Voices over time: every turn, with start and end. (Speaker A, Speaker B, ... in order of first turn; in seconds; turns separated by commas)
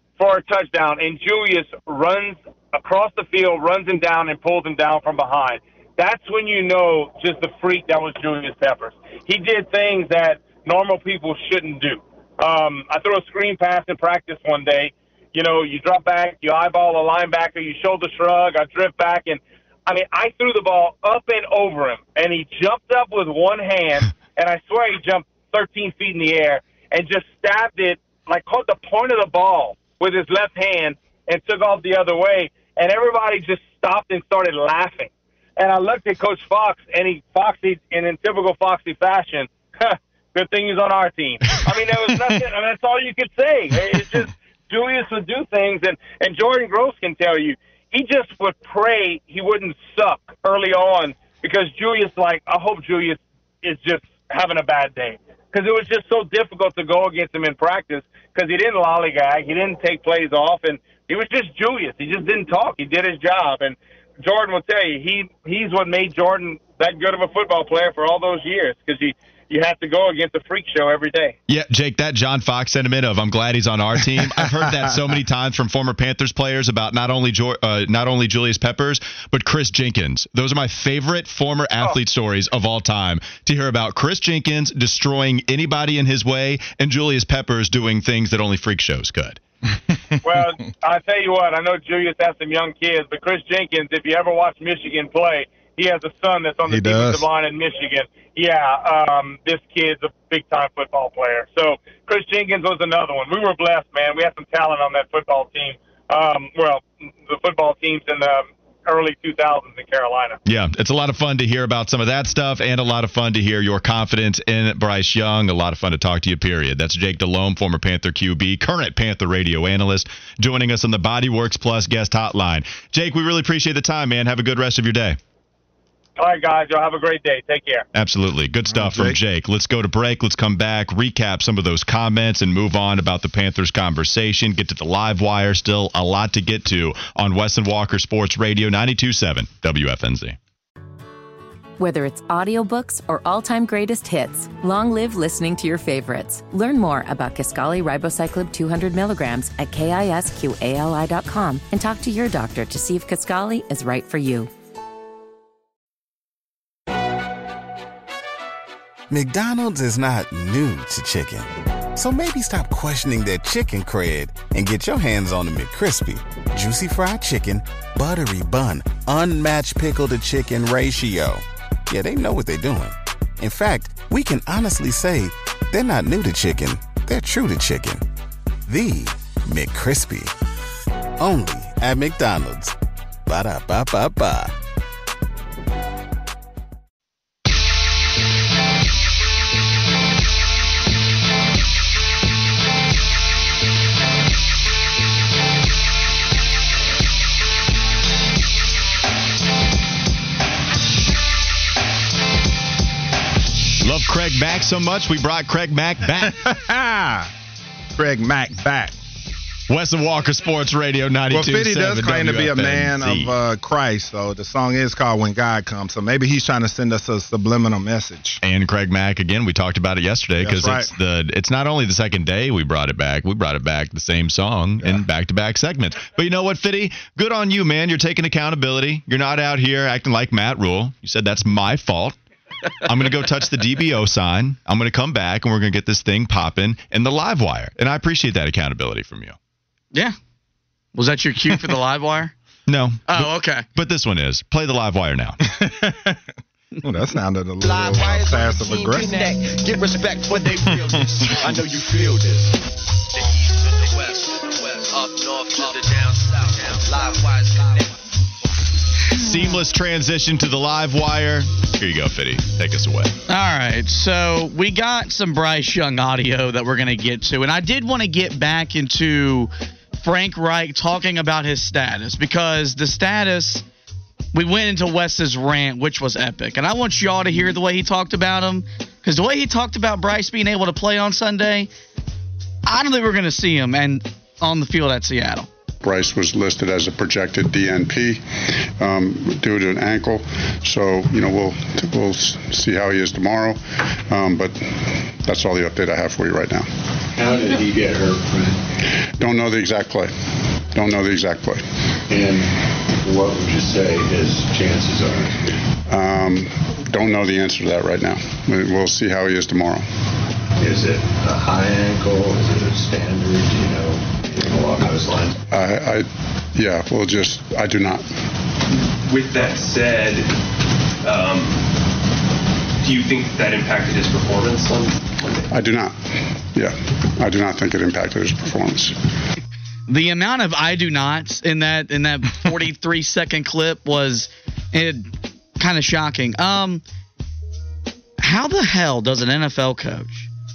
Speaker A: 0.2-71.4, Speaker B: 71.5-89.4, Speaker A: 90.2-110.4, Speaker C: 96.7-97.3, Speaker B: 110.5-125.2, Speaker A: 126.2-127.9, Speaker B: 127.9-140.4, Speaker C: 128.7-129.2, Speaker D: 141.8-154.5, Speaker E: 159.1-178.1, Speaker E: 178.7-180.3, Speaker E: 181.2-182.8, Speaker E: 183.3-184.6, Speaker B: 203.8-206.4, Speaker C: 206.2-207.3, Speaker C: 208.0-209.0, Speaker B: 209.7-213.3, Speaker C: 211.3-218.4, Speaker B: 218.4-232.2, Speaker C: 220.4-220.9, Speaker B: 232.8-239.4, Speaker F: 240.9-242.3, Speaker B: 242.7-245.4, Speaker F: 243.1-243.7, Speaker C: 245.5-246.2, Speaker C: 246.8-249.3, Speaker G: 247.6-252.6, Speaker C: 250.7-251.3, Speaker G: 253.1-257.9, Speaker B: 259.1-263.1, Speaker F: 263.3-273.6, Speaker F: 274.3-281.7, Speaker F: 282.7-285.5, Speaker H: 285.8-288.2, Speaker H: 288.8-296.7, Speaker I: 297.2-298.6, Speaker H: 299.0-300.1, Speaker H: 300.7-301.6, Speaker I: 302.1-302.5, Speaker I: 303.0-305.6, Speaker H: 305.9-309.9, Speaker I: 310.6-315.4, Speaker H: 315.5-318.1, Speaker J: 318.9-320.3, Speaker J: 321.0-321.7, Speaker J: 322.8-325.4, Speaker H: 325.5-328.9, Speaker F: 329.9-336.8, Speaker F: 338.2-340.3